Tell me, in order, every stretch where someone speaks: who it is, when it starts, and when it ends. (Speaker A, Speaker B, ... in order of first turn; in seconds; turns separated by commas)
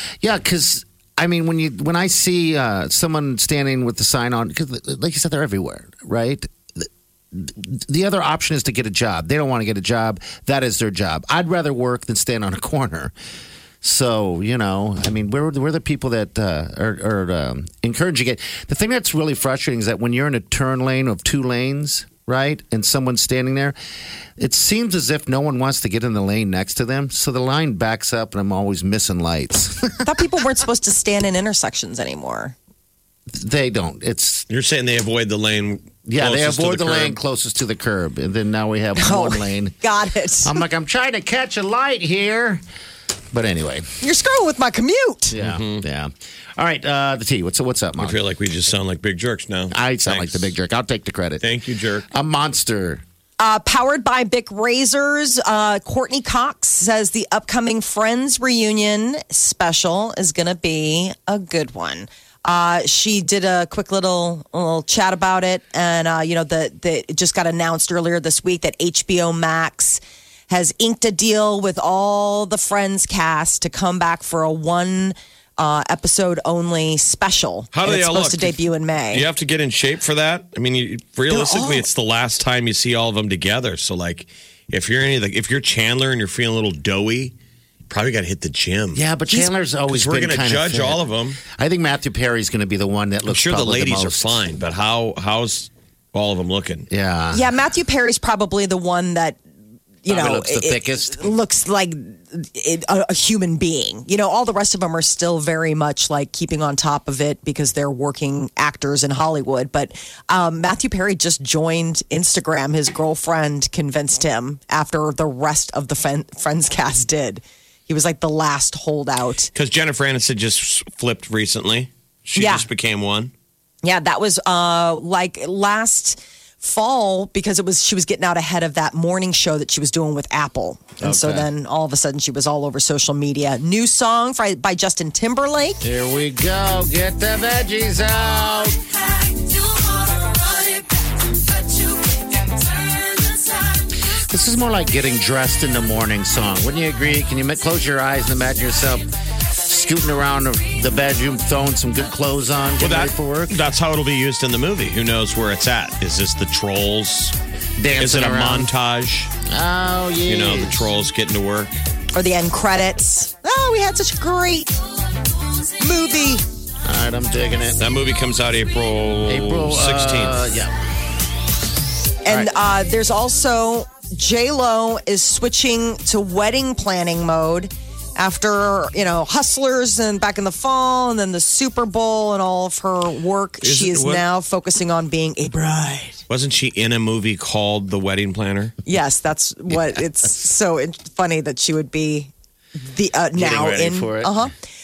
Speaker A: 0.2-13.1, Speaker A: 13.8-23.8, Speaker A: 24.4-30.1, Speaker B: 30.0-32.5, Speaker A: 33.3-34.4, Speaker C: 34.5-37.1, Speaker A: 36.0-39.7, Speaker B: 39.0-40.6, Speaker A: 40.4-42.6, Speaker A: 43.3-43.9, Speaker B: 44.0-45.3, Speaker A: 45.3-48.2, Speaker C: 45.4-45.8, Speaker C: 48.0-50.5, Speaker A: 49.7-51.5, Speaker C: 51.4-52.0, Speaker A: 52.1-53.0, Speaker B: 53.4-79.2, Speaker C: 77.7-87.3, Speaker B: 81.3-81.8, Speaker C: 87.9-89.0, Speaker A: 88.9-94.4, Speaker C: 89.9-91.4, Speaker C: 93.3-96.9, Speaker A: 96.9-97.4, Speaker B: 97.3-99.4, Speaker B: 100.0-119.5, Speaker A: 100.1-101.3, Speaker C: 119.5-123.3, Speaker B: 122.3-122.7, Speaker B: 123.8-135.8, Speaker A: 131.0-131.5, Speaker A: 135.8-138.8, Speaker B: 140.1-140.7, Speaker A: 144.1-153.6, Speaker C: 152.8-157.3, Speaker A: 157.8-158.7, Speaker C: 157.9-159.3, Speaker A: 159.4-160.9, Speaker C: 160.3-161.8, Speaker B: 162.1-164.7, Speaker B: 165.8-166.4, Speaker A: 166.8-167.8, Speaker C: 167.8-170.5, Speaker A: 169.2-170.8, Speaker B: 172.2-186.2, Speaker C: 183.6-184.2, Speaker C: 186.3-188.8, Speaker B: 188.8-194.5, Speaker A: 193.3-194.5